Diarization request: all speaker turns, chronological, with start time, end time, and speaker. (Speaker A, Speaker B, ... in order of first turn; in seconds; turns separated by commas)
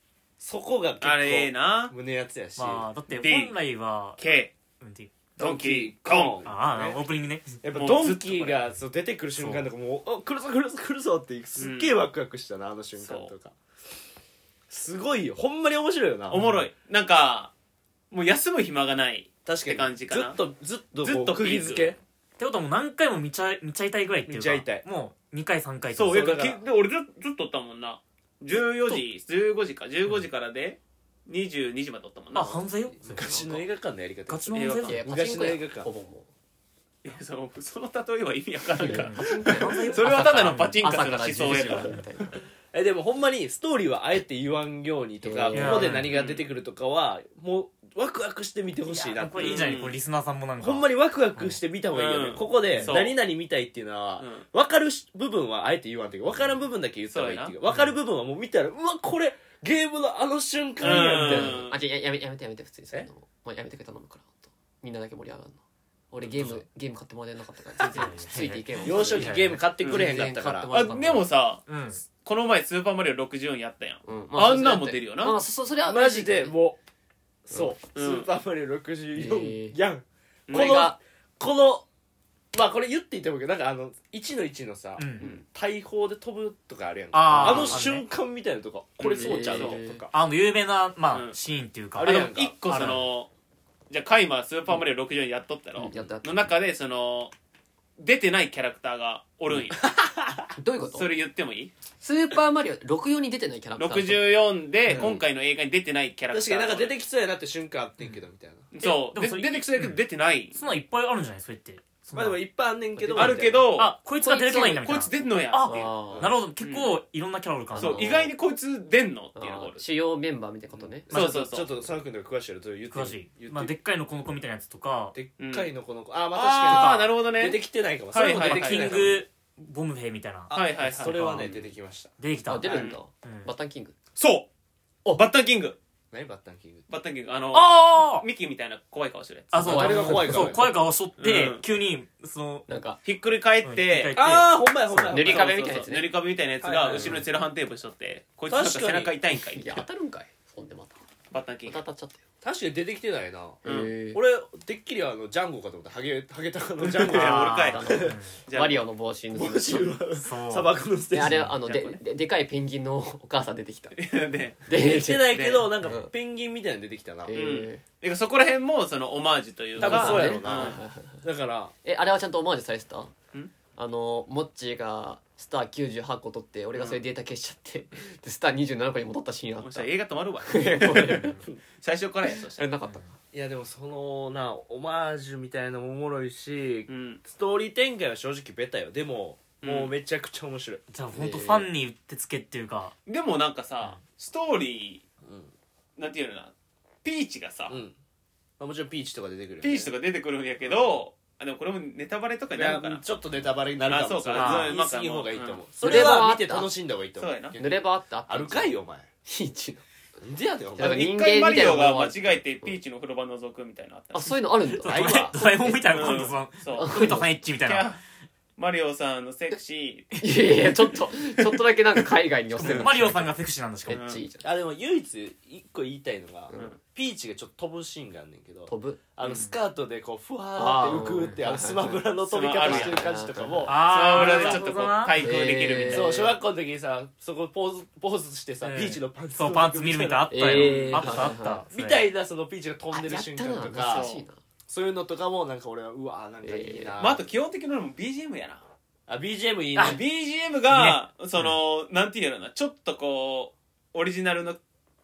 Speaker A: 0.4-2.9, Speaker B: 1.0-1.9, Speaker C: 2.6-4.2, Speaker B: 3.1-3.5, Speaker B: 4.2-4.5, Speaker C: 4.8-5.2, Speaker B: 5.4-6.4, Speaker A: 5.4-7.0, Speaker C: 6.4-7.6, Speaker A: 7.6-13.5, Speaker B: 7.7-8.6, Speaker C: 9.4-9.7, Speaker B: 11.6-12.0, Speaker B: 13.0-13.3, Speaker A: 14.7-16.4, Speaker B: 16.3-17.5, Speaker C: 16.3-16.6, Speaker B: 18.1-20.4, Speaker A: 19.4-22.0, Speaker B: 21.0-21.9, Speaker C: 22.4-26.4, Speaker A: 24.3-24.8, Speaker B: 25.9-32.6, Speaker A: 26.1-26.6, Speaker C: 28.5-29.0, Speaker C: 32.3-33.6, Speaker A: 33.0-35.9, Speaker D: 33.2-33.5, Speaker C: 34.3-35.0, Speaker B: 34.5-35.0, Speaker D: 34.9-36.3, Speaker B: 37.0-42.0, Speaker D: 38.8-42.4, Speaker C: 38.8-42.0, Speaker A: 42.7-49.8, Speaker D: 45.2-46.0, Speaker C: 45.5-46.2, Speaker B: 46.0-46.4, Speaker C: 48.9-51.6, Speaker B: 49.3-50.0, Speaker A: 50.6-61.7, Speaker B: 51.9-53.1, Speaker B: 54.2-54.4, Speaker B: 57.1-57.5, Speaker C: 57.7-58.0, Speaker B: 60.8-61.8, Speaker D: 60.8-65.6, Speaker D: 66.1-71.2, Speaker A: 66.2-66.6, Speaker C: 67.8-69.6, Speaker A: 68.8-70.8, Speaker B: 69.8-70.1, Speaker B: 70.7-75.4, Speaker C: 70.9-71.1, Speaker C: 71.7-72.0, Speaker D: 74.0-76.5, Speaker A: 75.8-76.8, Speaker A: 77.5-81.8, Speaker B: 77.9-78.3, Speaker D: 79.1-79.8, Speaker B: 80.5-80.9, Speaker D: 80.5-81.0, Speaker A: 82.5-90.1, Speaker C: 85.0-85.3, Speaker C: 87.1-88.1, Speaker D: 87.3-87.8, Speaker B: 89.0-89.8, Speaker D: 89.1-90.0, Speaker C: 90.1-93.1, Speaker B: 91.1-91.4, Speaker A: 92.0-92.6, Speaker B: 92.0-93.3, Speaker B: 93.9-97.3, Speaker D: 95.8-96.4, Speaker B: 98.0-99.9, Speaker A: 99.8-100.5, Speaker D: 100.6-101.1, Speaker B: 100.9-101.7, Speaker D: 102.0-104.3, Speaker B: 103.8-106.9, Speaker A: 104.9-105.2, Speaker A: 106.3-108.7, Speaker B: 108.7-110.6, Speaker C: 108.8-110.0, Speaker C: 110.5-112.4, Speaker A: 112.1-113.7, Speaker D: 113.0-113.4, Speaker B: 113.1-115.9, Speaker C: 113.8-118.2, Speaker D: 114.2-115.0, Speaker D: 115.6-116.3, Speaker B: 116.6-117.0, Speaker D: 117.7-118.3, Speaker B: 117.8-119.8, Speaker D: 119.3-121.1, Speaker A: 120.8-123.7, Speaker B: 121.1-121.7, Speaker C: 122.9-125.2, Speaker A: 125.1-129.2, Speaker B: 125.4-125.7, Speaker B: 126.3-127.6, Speaker C: 126.6-127.1, Speaker B: 128.1-129.1, Speaker C: 128.3-131.5, Speaker B: 130.5-131.4, Speaker A: 130.5-132.1, Speaker C: 132.2-133.5, Speaker D: 132.4-133.9, Speaker B: 132.7-133.0, Speaker B: 134.2-134.5, Speaker B: 135.1-135.8, Speaker A: 136.1-136.8, Speaker B: 136.9-139.6, Speaker C: 137.5-138.2, Speaker C: 139.5-142.7, Speaker D: 139.6-140.6, Speaker A: 139.6-140.7, Speaker B: 141.2-141.6, Speaker D: 142.7-143.0, Speaker B: 143.0-144.2, Speaker C: 143.6-145.1, Speaker A: 144.1-145.6, Speaker D: 145.0-146.1, Speaker B: 145.1-149.8, Speaker A: 146.6-147.2, Speaker A: 148.5-149.1, Speaker D: 149.4-151.0, Speaker B: 151.3-151.8, Speaker D: 151.7-152.2, Speaker A: 152.4-158.2, Speaker B: 153.6-153.9, Speaker D: 153.6-154.2, Speaker B: 156.8-158.8, Speaker C: 157.1-158.4, Speaker D: 157.6-159.9, Speaker A: 159.3-161.5, Speaker C: 160.2-160.7, Speaker D: 161.1-164.0, Speaker C: 161.2-161.5, Speaker B: 161.6-162.0, Speaker B: 163.9-164.7, Speaker D: 164.7-166.1, Speaker A: 164.7-167.3, Speaker B: 165.3-165.7, Speaker D: 167.2-167.8, Speaker B: 167.3-170.8, Speaker A: 169.8-171.7, Speaker D: 169.8-171.2, Speaker D: 171.8-173.1, Speaker D: 173.8-179.9, Speaker B: 176.7-177.0, Speaker B: 179.6-182.7, Speaker D: 180.4-181.4, Speaker D: 182.3-183.1, Speaker A: 183.3-190.8, Speaker B: 186.9-187.2, Speaker B: 189.6-189.9, Speaker C: 190.9-192.9, Speaker D: 191.1-191.7, Speaker B: 193.1-195.0, Speaker A: 195.2-195.5, Speaker B: 196.0-196.5, Speaker B: 197.0-197.8, Speaker A: 197.7-197.9, Speaker A: 198.6-199.9, Speaker B: 199.6-203.0, Speaker A: 202.5-209.1, Speaker B: 203.8-205.6, Speaker C: 204.3-204.7, Speaker D: 205.8-206.7, Speaker B: 207.2-207.6, Speaker D: 207.6-209.8, Speaker A: 210.2-211.1, Speaker D: 210.8-212.7, Speaker B: 210.8-214.4, Speaker D: 214.1-217.3, Speaker C: 214.8-218.0, Speaker A: 214.8-215.3, Speaker B: 215.9-218.0, Speaker B: 218.6-220.2, Speaker D: 220.2-224.5, Speaker C: 222.6-224.0, Speaker B: 223.9-224.2, Speaker A: 224.4-234.7, Speaker D: 226.5-226.7, Speaker B: 226.5-226.8, Speaker D: 228.7-229.0, Speaker B: 229.2-229.5, Speaker D: 230.6-233.7, Speaker B: 232.2-233.0, Speaker C: 233.7-235.3, Speaker B: 233.7-236.3, Speaker D: 235.2-236.3, Speaker A: 235.8-244.1, Speaker C: 238.6-242.0, Speaker D: 240.3-241.6, Speaker B: 240.6-241.0, Speaker D: 242.9-244.4, Speaker B: 243.8-244.2, Speaker A: 244.7-247.3, Speaker D: 246.4-246.9, Speaker B: 247.0-248.6, Speaker A: 249.1-250.0, Speaker B: 249.8-254.6, Speaker C: 250.7-251.6